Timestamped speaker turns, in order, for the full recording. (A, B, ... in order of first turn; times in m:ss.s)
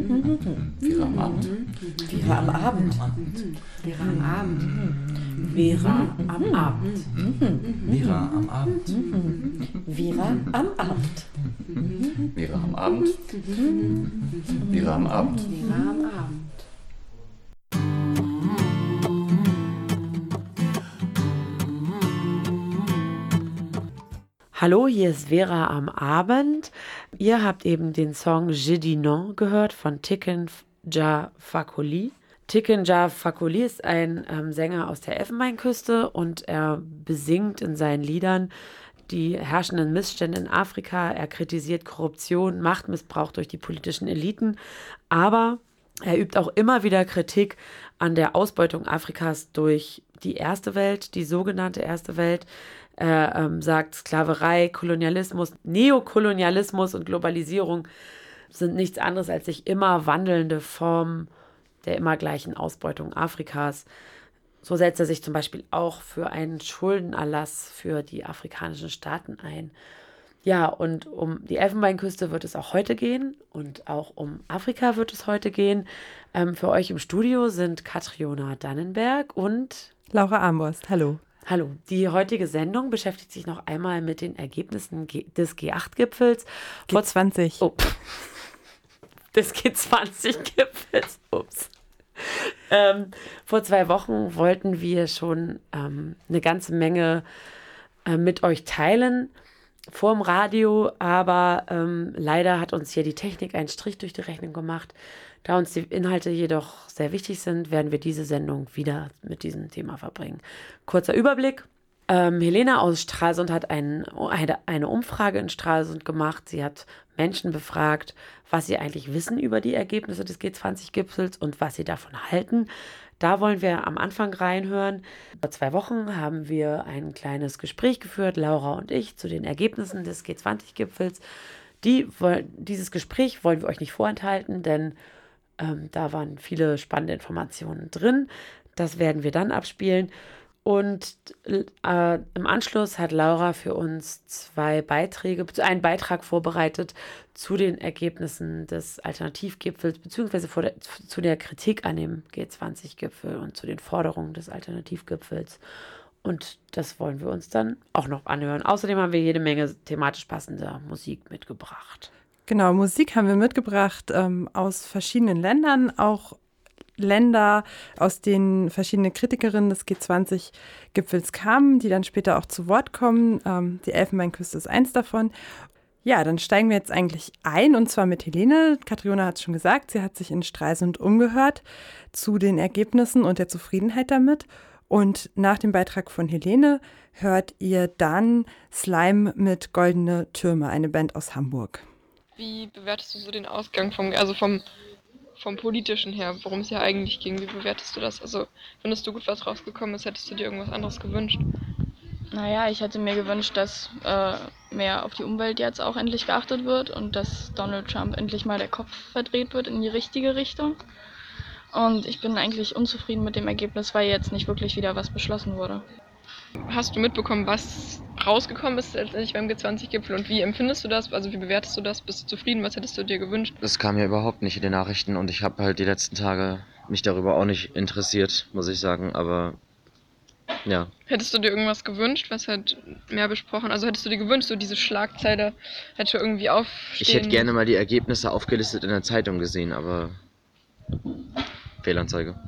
0:00.3-0:03.4 A
0:02.1-0:02.8 B
0:04.4-0:04.9 A
0:05.5-0:06.8 B
0:07.1-0:09.2 A
0:09.9-0:11.0 B
0:12.3-0:13.2 A
0:14.6-0:15.6 A
0:24.5-0:38.5 B
0:39.1-0:44.6 B
0:45.1-0:52.5 B
0:53.0-0:57.9 B
0:58.5-1:01.3 B
1:01.8-1:03.9 B
1:04.6-1:09.7 B
1:10.4-1:19.9 B
1:20.1-1:21.2 C
1:21.4-1:27.1 B
1:26.9-1:27.6 C
1:27.6-1:28.1 B
1:29.3-1:37.2 B
1:38.0-1:39.3 B
1:39.9-2:02.7 B
2:03.2-2:11.2 B
2:11.8-2:15.0 B
2:15.6-2:20.1 B
2:20.6-2:35.6 B
2:36.2-2:42.1 B
2:42.5-2:46.4 C
2:47.0-2:55.3 C
2:56.0-3:11.8 C
3:12.4-3:14.6 D
3:15.4-3:21.4 D
3:22.3-3:30.8 E
3:31.7-3:35.8 E
3:36.6-3:43.6 D
3:43.6-3:49.6 F
3:50.6-3:50.9 F
3:51.1-3:57.5 D
3:57.0-4:00.2 F
4:01.8-4:02.4 F